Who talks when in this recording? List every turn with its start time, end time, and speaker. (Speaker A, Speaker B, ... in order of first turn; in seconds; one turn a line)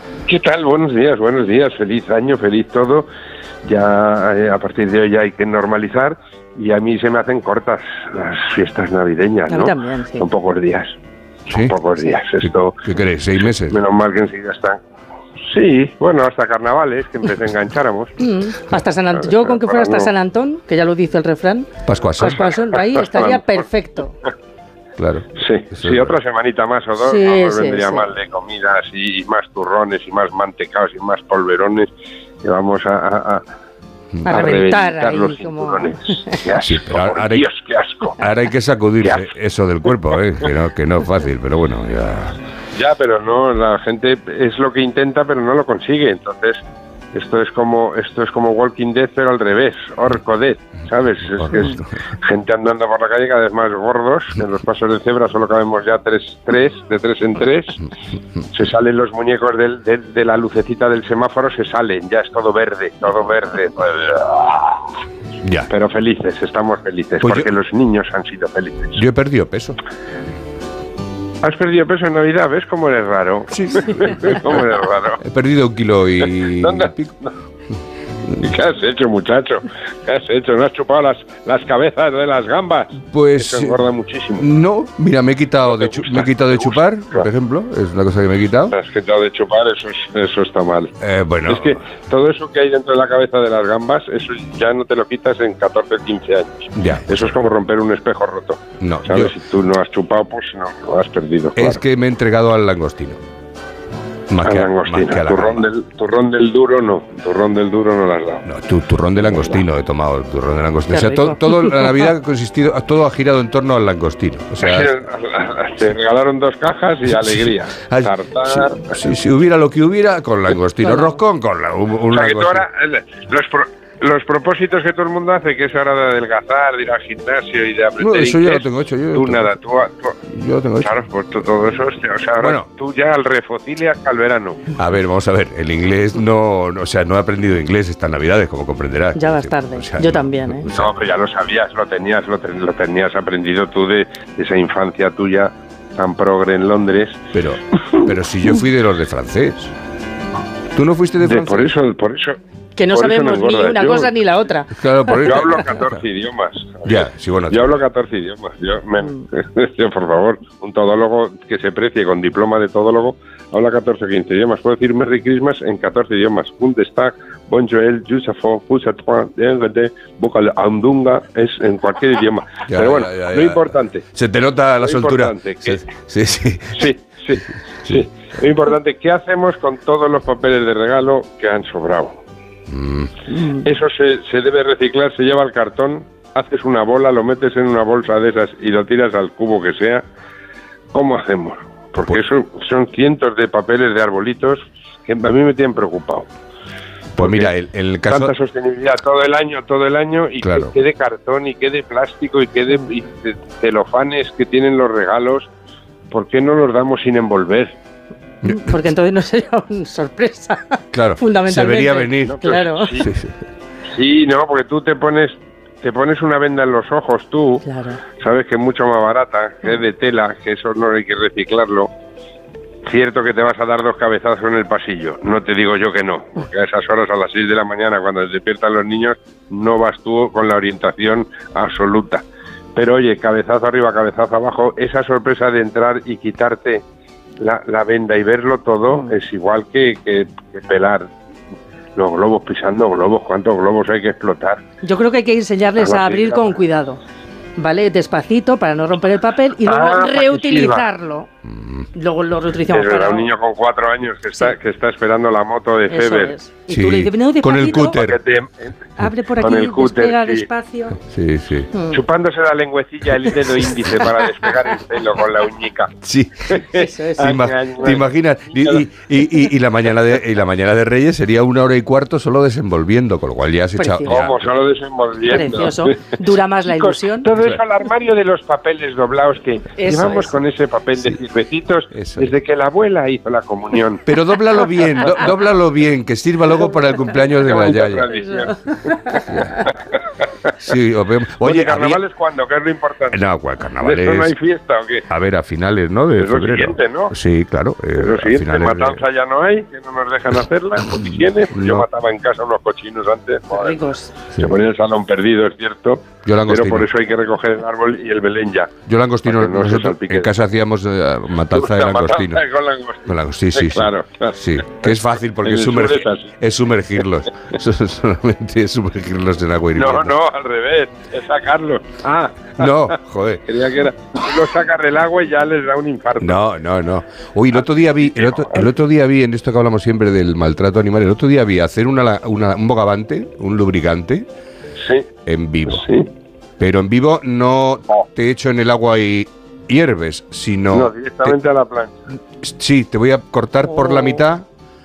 Speaker A: 0.3-3.1
Speaker A: 3.6-11.0
Speaker B: 9.5-10.2
Speaker C: 11.5-11.7
Speaker A: 11.5-12.8
Speaker C: 12.8-13.8
Speaker A: 13.7-14.8
Speaker A: 15.5-18.2
Speaker B: 18.2-24.1
Speaker A: 19.1-20.1
Speaker C: 21.9-22.5
Speaker A: 22.2-23.5
Speaker C: 25.0-26.1
Speaker A: 25.4-31.9
Speaker B: 27.0-28.1
Speaker A: 32.4-33.4
Speaker A: 34.2-38.2
Speaker B: 34.3-36.4
Speaker C: 36.5-37.5
Speaker C: 38.1-42.4
Speaker A: 39.0-39.3
Speaker A: 40.1-40.5
Speaker A: 42.8-46.6
Speaker A: 47.1-57.8
Speaker C: 51.4-51.9
Speaker A: 58.5-64.9
Speaker C: 65.4-65.7
Speaker A: 65.7-69.0
Speaker C: 67.2-67.5
Speaker C: 69.0-69.8
Speaker A: 71.4-75.2
Speaker C: 73.5-74.4
Speaker C: 75.2-77.2
Speaker A: 76.2-77.3
Speaker A: 78.3-84.5
Speaker C: 83.1-83.8
Speaker C: 84.4-88.8
Speaker A: 85.6-87.3
Speaker A: 88.7-90.9
Speaker C: 91.0-91.8
Speaker A: 91.5-101.8
Speaker C: 96.8-97.4
Speaker C: 98.8-99.3
Speaker C: 101.6-103.2
Speaker C: 104.3-105.6
Speaker A: 104.4-108.5
Speaker C: 108.5-115.0
Speaker A: 109.3-109.6
Speaker B: 110.9-112.0
Speaker A: 114.6-119.1
Speaker C: 117.9-122.6
Speaker B: 120.8-121.2
Speaker A: 122.1-130.2
Speaker C: 128.0-129.5
Speaker C: 130.3-131.0
Speaker A: 130.8-134.7
Speaker C: 132.4-132.7
Speaker C: 134.8-140.9
Speaker B: 139.2-140.7
Speaker A: 140.7-147.2
Speaker C: 147.3-149.7
Speaker C: 150.7-151.7
Speaker A: 151.2-152.4
Speaker B: 152.8-155.6
Speaker A: 152.9-154.2
Speaker C: 154.8-156.0
Speaker A: 155.2-174.1
Speaker C: 156.8-157.8
Speaker C: 172.7-176.9
Speaker A: 174.8-175.9
Speaker A: 176.7-182.2
Speaker C: 182.7-183.1
Speaker B: 183.3-183.6
Speaker A: 183.4-190.0
Speaker A: 190.9-196.3
Speaker A: 197.2-197.5
Speaker C: 197.2-198.3
Speaker A: 198.1-205.5
Speaker C: 200.4-200.7
Speaker A: 206.1-207.8
Speaker B: 208.4-213.1
Speaker C: 210.9-213.4
Speaker A: 212.3-213.1
Speaker A: 213.9-221.9
Speaker B: 217.7-218.0
Speaker A: 222.8-236.8
Speaker A: 237.4-241.1
Speaker B: 238.9-239.2
Speaker A: 242.0-244.6
Speaker B: 244.8-247.0
Speaker A: 245.8-246.6
Speaker B: 247.6-251.3
Speaker A: 249.6-250.9
Speaker C: 251.5-251.9
Speaker B: 251.9-253.3
Speaker A: 252.7-256.4
Speaker B: 255.9-258.0
Speaker C: 256.7-258.2
Speaker A: 257.9-258.8
Speaker B: 259.0-261.0
Speaker A: 259.4-260.5
Speaker C: 261.0-261.7
Speaker B: 261.7-262.0
Speaker A: 261.9-265.9
Speaker C: 266.0-266.7
Speaker A: 266.5-268.0
Speaker B: 266.7-267.4
Speaker C: 267.2-274.5
Speaker A: 268.6-268.8
Speaker B: 273.8-274.2
Speaker A: 274.1-276.1
Speaker B: 275.2-277.3
Speaker A: 276.7-284.0
Speaker B: 279.8-280.4
Speaker C: 282.0-282.3
Speaker C: 284.1-288.1
Speaker A: 287.3-290.5
Speaker B: 288.1-289.2
Speaker C: 289.3-289.6
Speaker C: 290.6-292.0
Speaker A: 291.4-293.2
Speaker C: 293.1-294.3
Speaker A: 293.8-295.1
Speaker C: 295.1-299.0
Speaker A: 296.2-297.1
Speaker A: 297.9-303.8
Speaker C: 300.9-301.9
Speaker B: 303.5-304.1
Speaker A: 304.4-308.7
Speaker C: 306.2-306.9
Speaker C: 308.9-312.4
Speaker A: 309.2-310.3
Speaker A: 311.5-316.4
Speaker C: 313.1-320.1
Speaker A: 319.8-326.4
Speaker C: 322.6-323.4
Speaker C: 326.2-334.3
Speaker A: 327.6-328.7
Speaker A: 334.8-335.1
Speaker C: 335.3-335.9
Speaker A: 335.7-336.1
Speaker C: 336.6-341.4
Speaker A: 340.7-342.0
Speaker C: 342.4-344.4
Speaker B: 343.7-344.3